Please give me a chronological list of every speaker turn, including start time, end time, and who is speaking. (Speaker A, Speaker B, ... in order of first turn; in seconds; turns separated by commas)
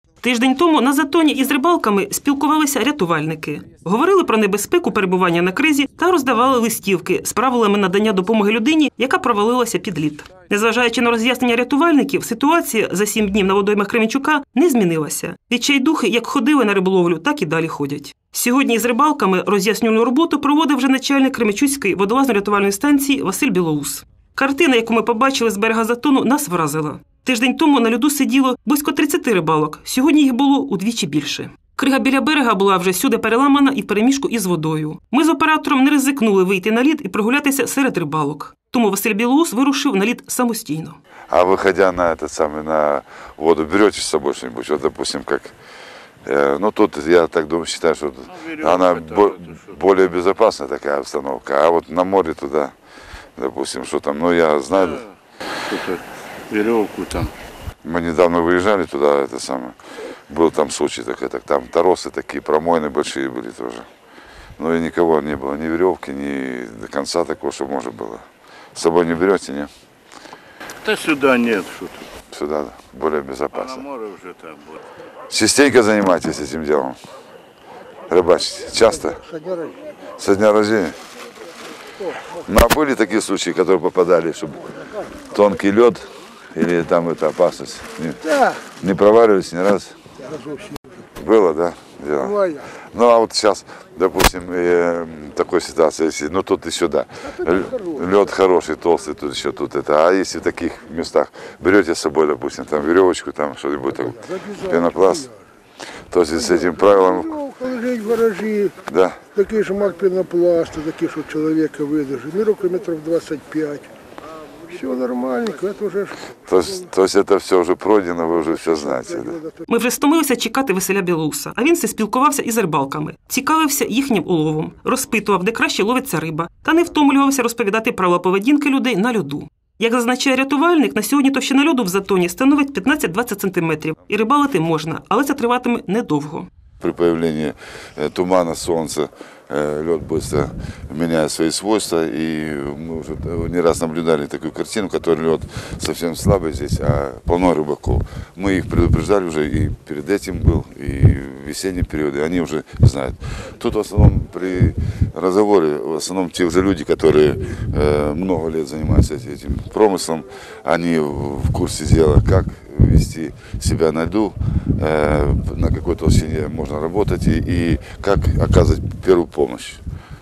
Speaker A: 0.2-41.0, Speaker B: 41.3-45.5, Speaker B: 46.2-52.7, Speaker C: 48.3-49.8, Speaker B: 53.4-55.0, Speaker C: 55.7-56.0, Speaker C: 56.5-57.3, Speaker B: 57.8-59.8, Speaker B: 60.3-63.9, Speaker B: 64.6-68.2, Speaker B: 68.8-69.7, Speaker C: 70.9-72.0, Speaker B: 72.3-73.9, Speaker C: 73.6-74.5, Speaker B: 75.3-77.0, Speaker B: 78.1-79.2, Speaker B: 80.2-80.9, Speaker B: 82.5-84.6, Speaker B: 85.3-86.0, Speaker B: 86.5-88.2, Speaker B: 88.8-90.0, Speaker B: 91.2-92.4, Speaker B: 92.9-105.3, Speaker B: 106.1-107.4, Speaker B: 108.9-109.2, Speaker D: 109.8-110.8, Speaker D: 111.6-113.5, Speaker D: 114.9-115.7, Speaker B: 116.5-119.4, Speaker A: 119.7-136.5, Speaker B: 136.8-169.8